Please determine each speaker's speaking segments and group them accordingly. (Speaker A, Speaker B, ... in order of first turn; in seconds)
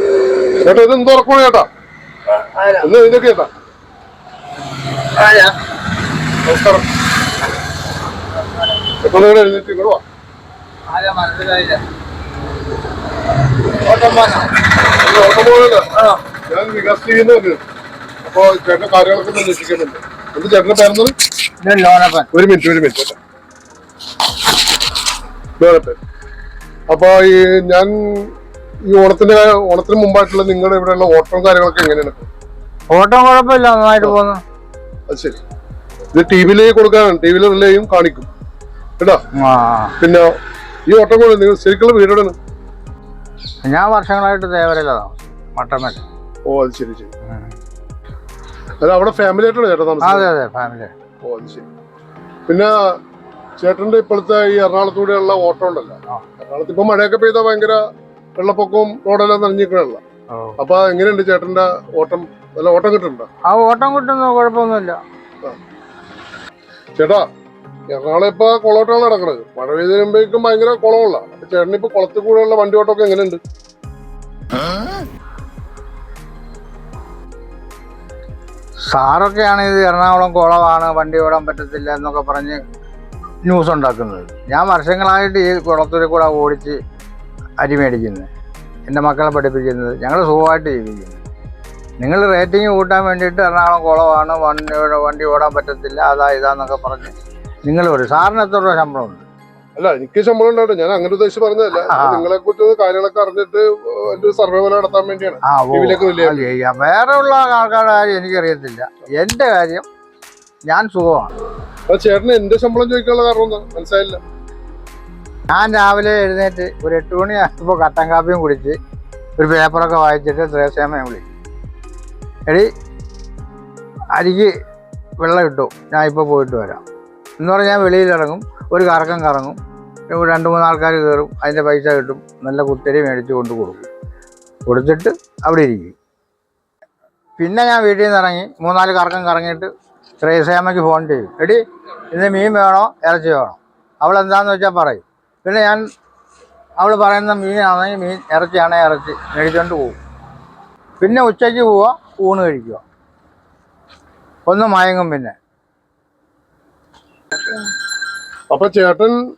Speaker A: 0.6-1.7, 2.8-3.5, 6.4-6.9, 9.0-10.0, 15.0-15.9, 16.5-17.6, 18.2-21.1, 22.3-23.2, 25.6-26.0, 26.9-28.3, 28.9-32.3, 35.1-35.4, 36.1-38.3, 40.0-40.3, 40.9-42.3, 46.5-47.1, 48.8-50.3, 51.2-51.6, 52.5-52.9, 53.6-57.8, 58.4-60.0, 60.6-63.3, 67.0-67.2, 67.9-73.4, 99.8-106.5, 111.9-114.2, 158.5-159.2
Speaker B: 2.3-2.9, 5.0-5.5, 10.9-11.8, 13.7-14.5, 15.9-16.2, 21.6-22.3, 32.9-34.4, 39.3-40.0, 43.6-46.0, 47.2-47.5, 50.0-50.9, 60.3-60.6, 63.5-65.0, 78.9-82.6, 83.4-86.8, 87.6-88.3, 88.9-91.2, 92.0-97.1, 97.7-99.2, 101.8-102.2, 105.4-109.8, 110.7-111.3, 115.5-118.8, 119.4-121.2, 124.1-124.5, 125.2-126.8, 127.4-129.6, 130.1-133.9, 134.7-135.9, 137.4-139.7, 140.2-145.9, 146.8-150.0, 151.0-152.8, 154.4-155.3